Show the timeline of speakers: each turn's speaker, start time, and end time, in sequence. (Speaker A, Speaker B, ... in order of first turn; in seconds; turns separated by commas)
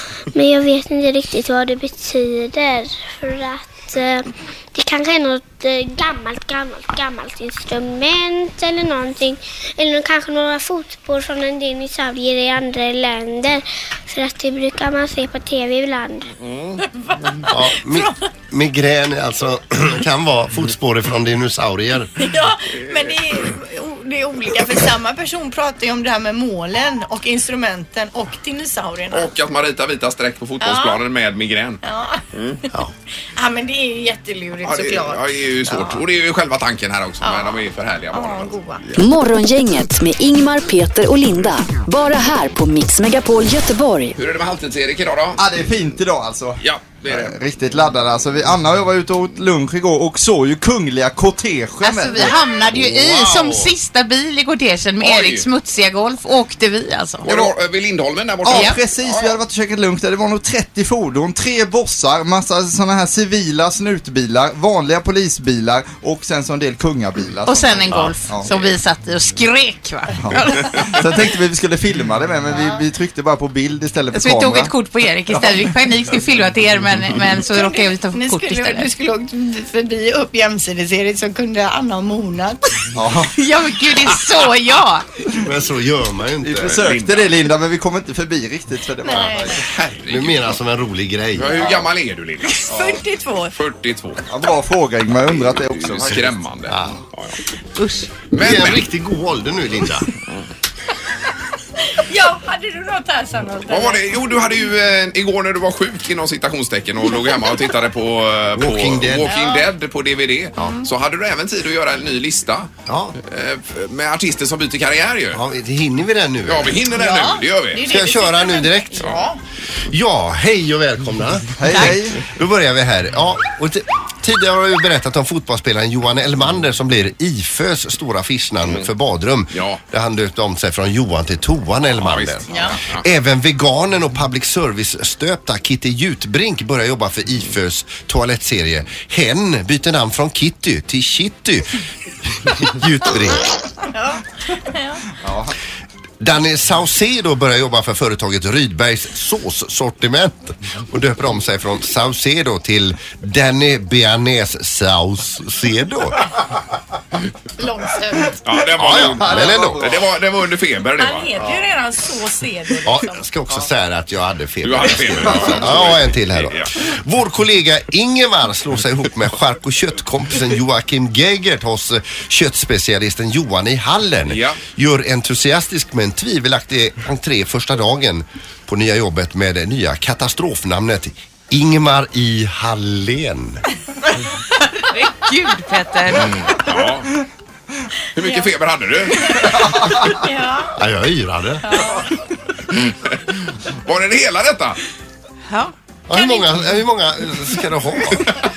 Speaker A: 0.3-16.2, Speaker B: 16.4-16.8, Speaker C: 17.0-18.1, Speaker D: 17.5-22.1, Speaker C: 22.2-29.3, Speaker B: 29.1-32.6, Speaker C: 30.6-31.0, Speaker C: 31.8-32.2, Speaker C: 33.3-36.0, Speaker B: 34.6-39.0, Speaker C: 37.2-38.8, Speaker E: 39.0-44.1, Speaker B: 44.1-45.4, Speaker F: 45.4-52.4, Speaker B: 46.6-47.4, Speaker G: 51.8-57.2, Speaker D: 52.7-53.7, Speaker B: 55.0-55.5, Speaker B: 57.2-59.4, Speaker F: 57.2-57.5, Speaker F: 58.4-68.5, Speaker G: 58.5-58.8, Speaker G: 67.4-71.0, Speaker F: 70.2-74.7, Speaker C: 72.5-72.8, Speaker G: 74.1-78.9, Speaker F: 75.3-75.7, Speaker C: 77.5-82.6, Speaker F: 82.9-83.3, Speaker G: 83.3-85.0, Speaker D: 85.4-86.8, Speaker F: 86.4-89.6, Speaker B: 86.6-87.4, Speaker C: 89.0-89.6, Speaker B: 89.5-90.6, Speaker D: 90.1-91.8, Speaker B: 91.3-93.0, Speaker C: 92.5-93.5, Speaker B: 93.5-94.2, Speaker F: 94.3-96.4, Speaker B: 95.3-97.4, Speaker D: 96.7-97.0, Speaker G: 97.8-98.2, Speaker B: 98.3-98.9, Speaker D: 98.3-100.1, Speaker C: 101.8-104.0, Speaker B: 103.7-112.7, Speaker D: 108.5-109.3, Speaker C: 109.3-109.6, Speaker D: 112.9-113.1, Speaker B: 113.2-115.4, Speaker D: 115.3-116.9, Speaker B: 116.5-117.9, Speaker C: 117.0-119.4, Speaker D: 117.8-119.2, Speaker D: 119.9-141.8, Speaker F: 121.6-122.2, Speaker B: 129.5-129.8, Speaker B: 132.0-133.0, Speaker C: 132.5-132.8, Speaker D: 142.4-143.6, Speaker C: 143.9-145.0, Speaker F: 145.2-145.5, Speaker D: 146.2-156.2, Speaker C: 157.6-158.4, Speaker B: 158.4-161.3, Speaker D: 158.8-159.9, Speaker F: 159.0-160.0, Speaker G: 161.0-163.0, Speaker C: 161.0-161.6, Speaker C: 162.4-162.9, Speaker D: 162.8-183.6, Speaker B: 164.6-166.8, Speaker B: 174.3-174.6, Speaker G: 184.6-186.4, Speaker B: 186.1-187.1, Speaker B: 188.1-189.6, Speaker C: 188.2-188.4, Speaker F: 189.7-189.9, Speaker C: 190.2-190.7, Speaker D: 190.7-191.6, Speaker C: 191.6-192.1, Speaker B: 192.7-194.8, Speaker D: 196.1-198.2, Speaker C: 196.1-196.4